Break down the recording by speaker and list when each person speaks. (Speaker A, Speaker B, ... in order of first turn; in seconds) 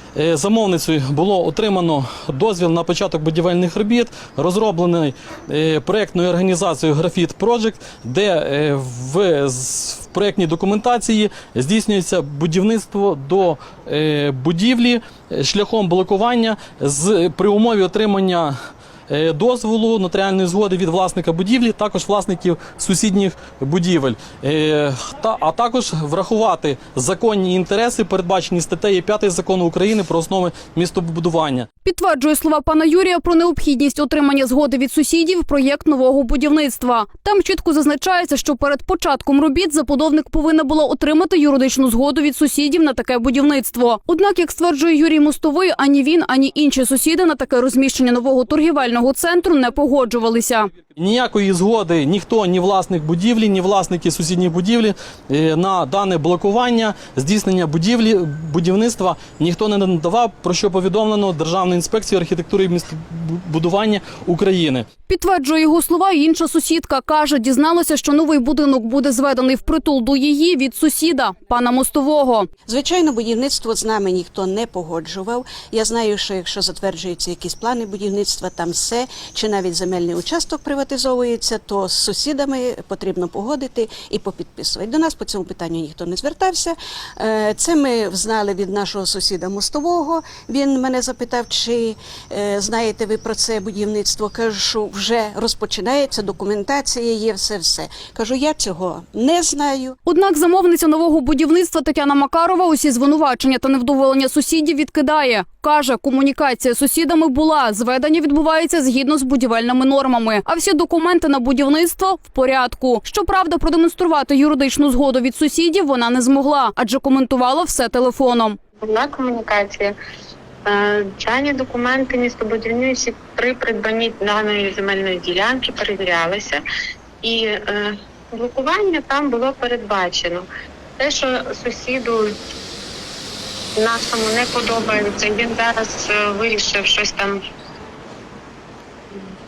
Speaker A: 0.2-18.5, 19.1-31.7, 51.0-64.8
Speaker B: 31.8-50.7, 65.1-72.5, 100.0-118.6
Speaker C: 72.7-100.0
Speaker D: 118.8-119.9, 120.7-126.6, 127.2-130.4, 131.0-132.3, 133.8-137.4